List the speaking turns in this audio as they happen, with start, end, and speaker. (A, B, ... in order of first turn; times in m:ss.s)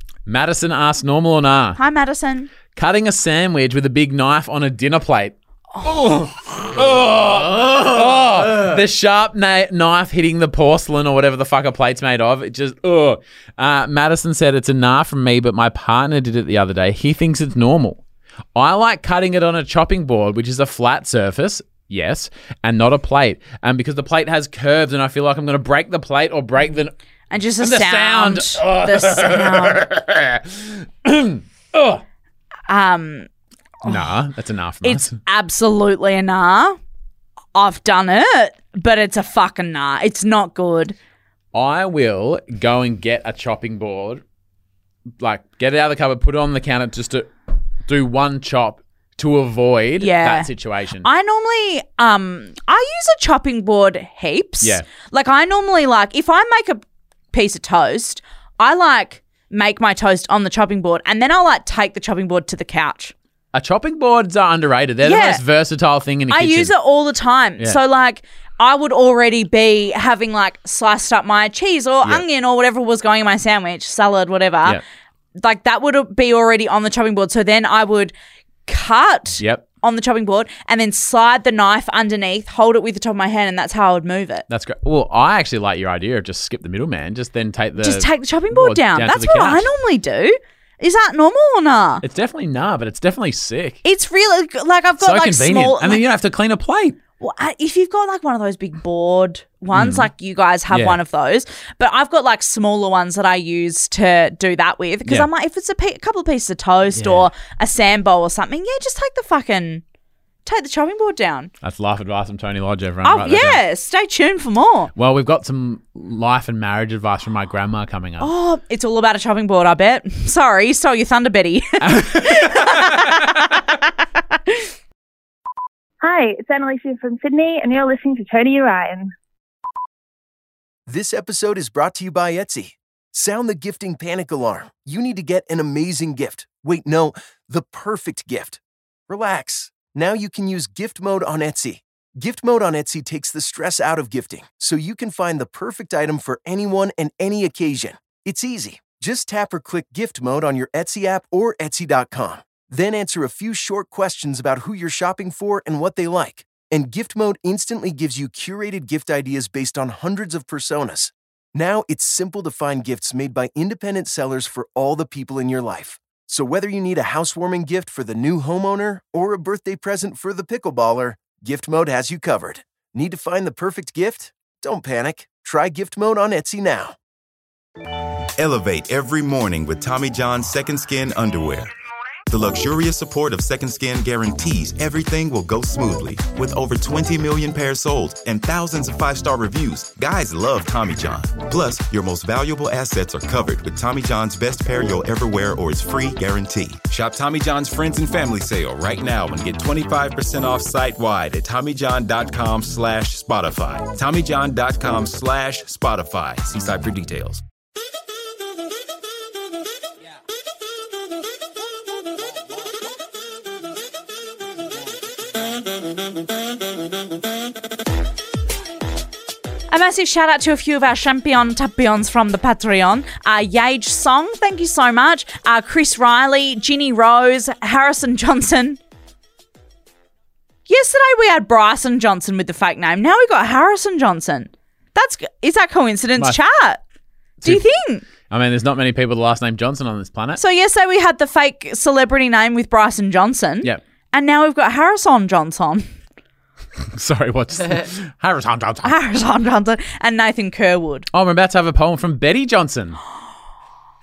0:00.3-0:01.8 A
0:01.8-0:02.5 B
0:02.7-0:18.0 A
0:18.6-0:26.9 A
0:27.3-0:29.8 B
0:27.6-0:32.0 A
0:32.7-0:33.3 B
0:33.8-0:34.2 B
0:33.8-0:35.2 A
0:34.8-0:36.8 B
0:37.6-0:41.0 B
0:41.5-0:44.2 A
0:45.2-0:47.3 A
0:47.9-0:51.1 A
0:50.0-0:50.5 B
0:51.0-0:56.8 B
0:54.6-0:54.9 A
0:57.3-1:03.1 B
1:03.5-1:06.7 A
1:05.0-1:05.4 B
1:06.3-1:14.8 B
1:15.4-1:18.1 B
1:18.7-1:24.5 B
1:19.4-1:19.6 A
1:24.5-1:29.7 A
1:27.8-1:32.0 B
1:32.0-1:33.8 A
1:33.8-1:36.0 B
1:35.0-1:37.0 A
1:37.2-1:49.8 B
1:39.7-1:40.1 A
1:40.7-1:41.0 A
1:46.9-1:47.3 A
1:50.4-1:51.5 B
1:51.6-1:53.6 A
1:53.0-1:54.9 B
1:55.0-1:58.3 A
1:58.2-2:03.8 B
2:01.8-2:03.6 A
2:06.0-2:09.1 C
2:10.9-2:57.0 D
2:58.4-3:01.7 E
3:02.3-3:27.4 E
3:39.7-3:48.8 B
3:50.7-3:56.8 B
3:57.4-3:58.1 B
3:58.3-4:00.4 A
4:00.4-4:05.9 B
4:06.9-4:08.9 A
4:08.8-4:11.1 B
4:11.1-4:13.0 A